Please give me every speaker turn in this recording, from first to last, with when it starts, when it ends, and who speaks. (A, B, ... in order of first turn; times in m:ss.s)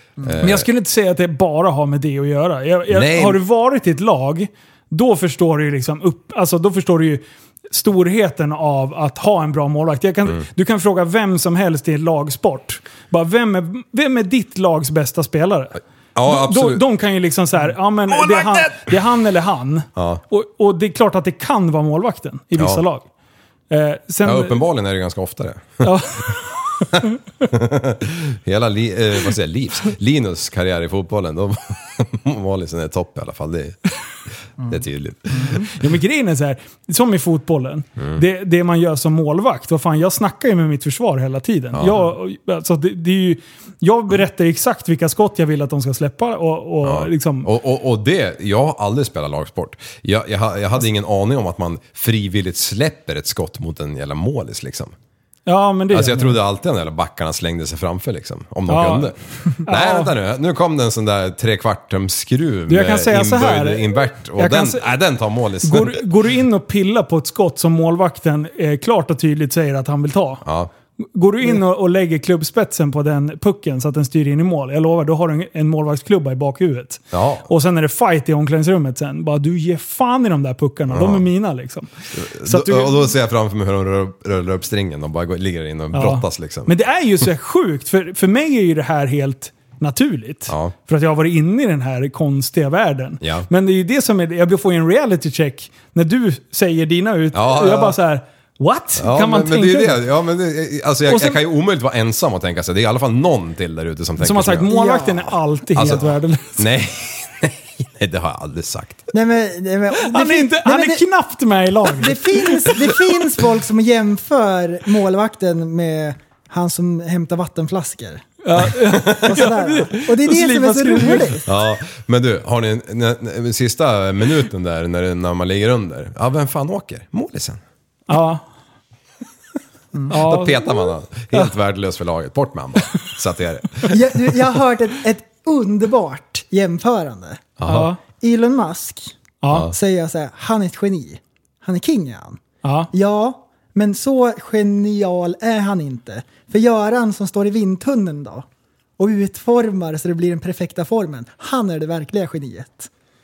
0:00.2-0:00.7 A
0:00.4-0:23.1 B
0:02.9-0:03.4 A
0:16.2-0:16.8 A
0:20.0-0:20.2 A
0:22.6-0:22.8 A
0:23.7-0:24.6 B
0:24.2-0:26.0 A
0:25.8-0:27.1 B
0:26.9-0:33.8 A
0:34.6-0:35.8 A
0:35.5-0:47.5 B
0:41.7-0:42.0 A
0:46.8-0:54.9 A
0:55.5-0:56.4 B
0:55.9-1:06.0 A
0:58.7-0:59.1 B
0:59.6-1:00.1 B
1:02.7-1:04.9 B
1:05.6-1:10.4 B
1:10.4-1:10.7 A
1:11.1-1:21.9 B
1:17.1-1:17.5 A
1:20.9-1:21.2 A
1:22.1-1:26.7 A
1:22.4-1:23.0 B
1:25.9-1:40.0 B
1:30.5-1:30.7 A
1:33.2-1:33.5 A
1:37.3-1:38.0 A
1:39.0-1:44.7 A
1:41.1-1:41.4 B
1:44.2-1:46.7 B
1:44.7-1:45.4 C
1:45.8-1:49.1 A
1:49.1-1:51.1 C
1:50.0-1:53.0 B
1:51.9-1:58.2 C
1:58.4-2:01.4 B
1:59.2-2:01.5 C
2:01.5-2:07.6 A
2:08.1-2:08.4 B
2:10.1-2:11.5 B
2:10.1-2:13.9 A
2:13.9-2:17.5 C
2:17.6-2:17.9 A
2:17.6-2:18.0 B
2:18.1-2:19.1 C
2:19.4-2:19.7 B
2:19.7-2:22.4 C
2:22.6-2:22.9 B
2:22.9-2:28.4 C
2:29.0-2:32.9 C